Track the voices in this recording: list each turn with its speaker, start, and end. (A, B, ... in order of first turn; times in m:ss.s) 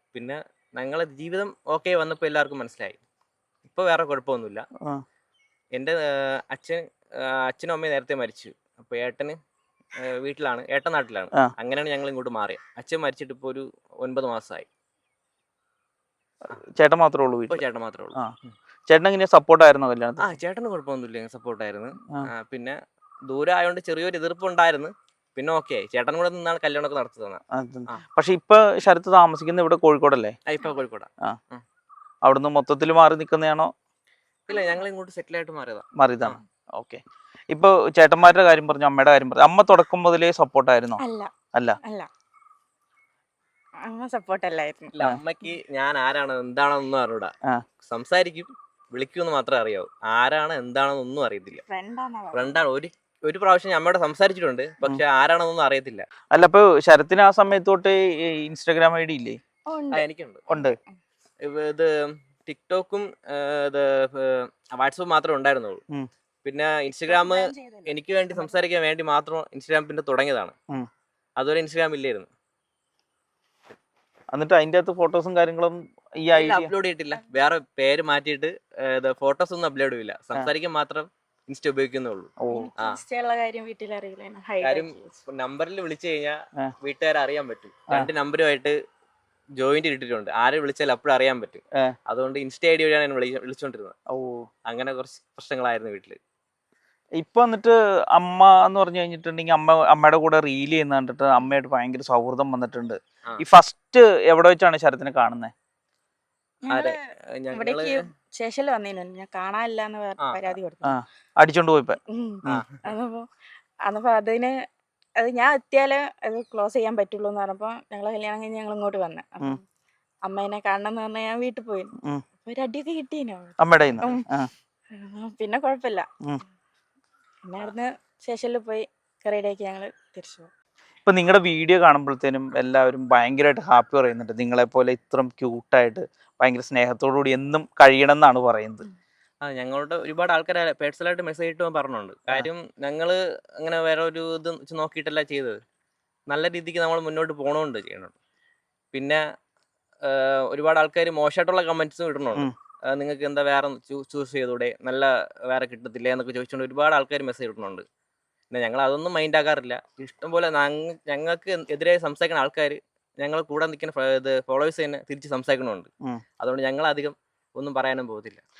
0:00.1-0:03.0 A
0:03.6-0:04.7 A
0:05.7-0:09.4 A
0:10.0-0:14.7 A
0:16.7-0:18.3 B
0:17.5-0:18.5 A
0:18.9-0:20.3 B
0:20.2-0:28.0 A
0:27.5-0:30.4 B
0:30.4-0:31.6 A
0:32.2-0:33.7 B
0:34.5-0:36.4 A
0:36.0-0:41.0 B
0:41.0-0:41.3 C
0:41.8-0:42.1 C
0:43.8-0:44.9 C
0:44.9-0:47.3 A
0:47.8-0:51.6 A
0:51.7-0:52.6 C
0:52.3-0:56.0 A
0:56.3-0:59.4 B
0:59.7-1:00.0 C
0:59.9-1:00.4 A
1:00.5-1:00.8 B
1:01.4-1:05.8 A
1:06.4-1:10.5 A
1:07.1-1:08.5 C
1:11.4-1:12.3 A
1:14.3-1:16.7 B
1:16.3-1:23.0 A
1:22.4-1:22.7 B
1:22.5-1:25.2 C
1:24.6-1:28.8 A
1:29.6-1:33.9 A
1:34.1-1:34.5 B
1:34.6-1:36.2 A
1:37.2-1:45.5 B
1:46.6-1:47.0 C
1:46.7-1:48.0 A
1:47.5-1:51.0 C
1:50.2-1:50.6 A
1:50.8-1:52.6 B
1:52.1-1:53.2 C
1:52.4-1:52.8 A
1:53.8-1:54.5 C
1:55.2-1:59.6 C
2:00.2-2:04.2 C
2:03.6-2:04.5 B
2:04.9-2:06.1 C
2:07.4-2:10.5 C
2:11.0-2:18.8 B
2:19.4-2:25.6 A
2:26.3-2:28.1 A
2:28.9-2:29.2 A
2:30.0-2:37.8 A
2:38.5-2:45.9 A
2:46.4-2:48.4 A